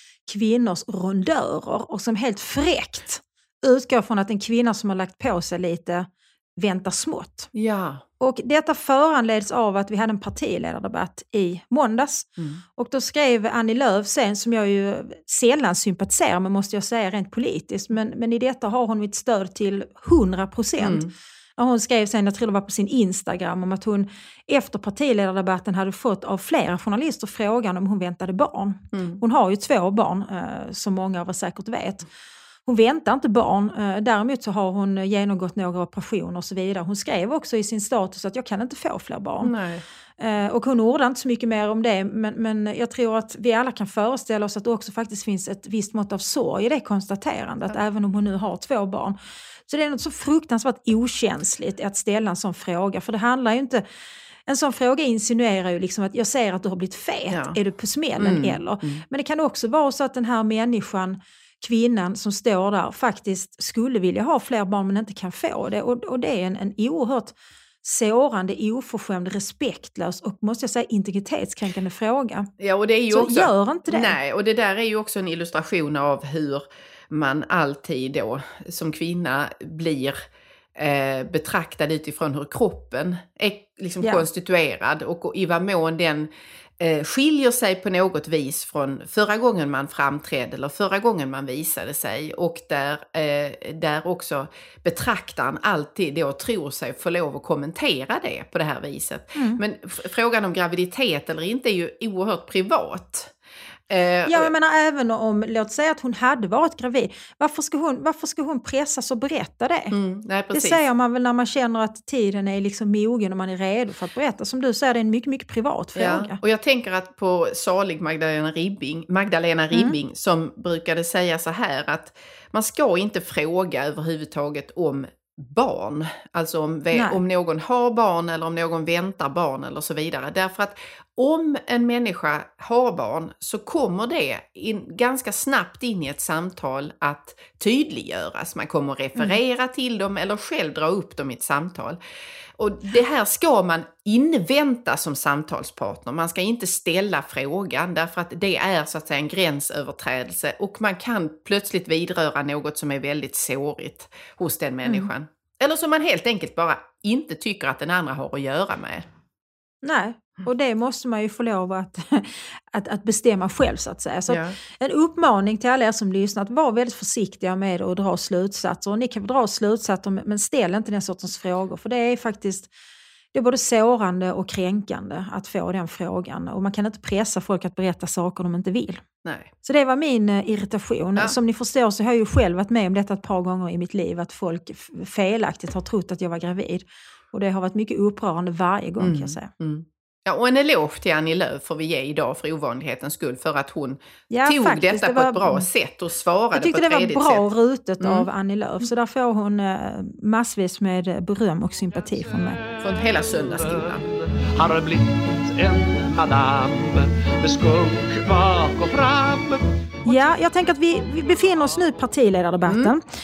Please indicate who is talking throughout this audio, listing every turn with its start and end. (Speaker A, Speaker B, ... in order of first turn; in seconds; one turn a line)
Speaker A: 0.3-7.5
Speaker B: 7.5-8.0
Speaker A: 8.2-21.0
Speaker B: 20.8-21.1
Speaker A: 21.6-32.0
Speaker B: 28.9-29.2
Speaker A: 32.6-39.5
Speaker B: 39.4-39.8
Speaker A: 40.2-49.1
Speaker A: 49.7-53.8
Speaker A: 54.5-72.5
Speaker B: 57.3-57.6
Speaker B: 58.2-59.0
Speaker B: 72.6-80.2
Speaker A: 73.1-74.2
Speaker B: 80.8-103.3
Speaker A: 99.3-99.6
Speaker B: 103.9-104.5
Speaker A: 104.2-109.9
Speaker B: 109.9-110.8
Speaker A: 110.5-116.4
Speaker B: 116.0-142.0
Speaker A: 126.9-127.2
Speaker B: 142.6-159.1
Speaker A: 159.8-172.7
Speaker B: 164.3-164.6
Speaker A: 173.3-179.0
Speaker B: 179.2-179.5
Speaker A: 179.6-189.5
Speaker B: 189.0-197.4
Speaker A: 194.3-195.7
Speaker A: 196.5-202.6
Speaker B: 198.0-198.3
Speaker B: 202.8-204.0
Speaker C: 203.1-210.2
Speaker A: 210.1-213.0
Speaker B: 212.7-212.9